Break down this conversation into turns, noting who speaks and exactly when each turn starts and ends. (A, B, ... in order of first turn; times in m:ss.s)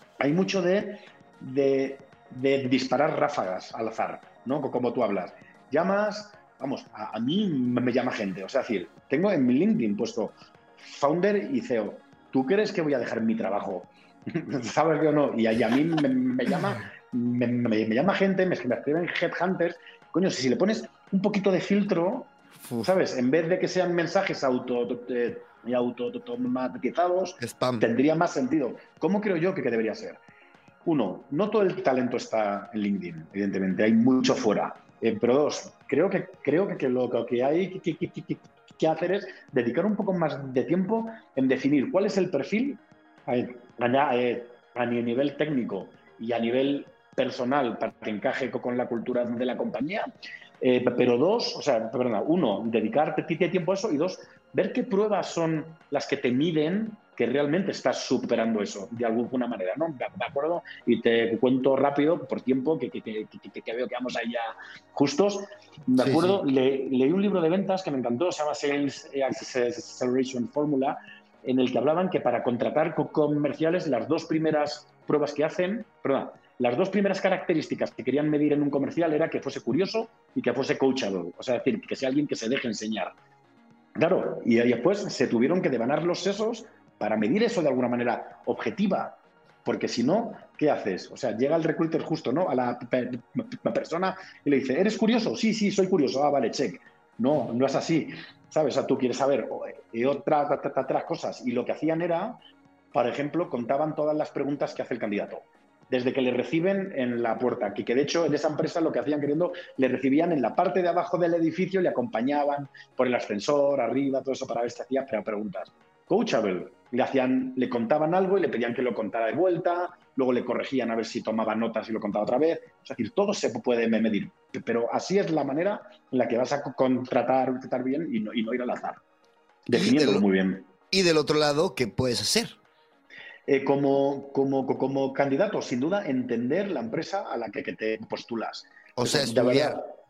0:00.2-0:30.2 A
0:27.4-0:27.9 B
0:30.8-1:23.1 A
1:06.0-1:06.4 B
1:24.0-1:42.4 A
1:42.9-2:09.0 A
2:09.7-2:10.7 A
2:09.7-2:10.2 B
2:10.9-2:12.6 B
2:13.5-2:19.9 A
2:19.0-2:19.8 B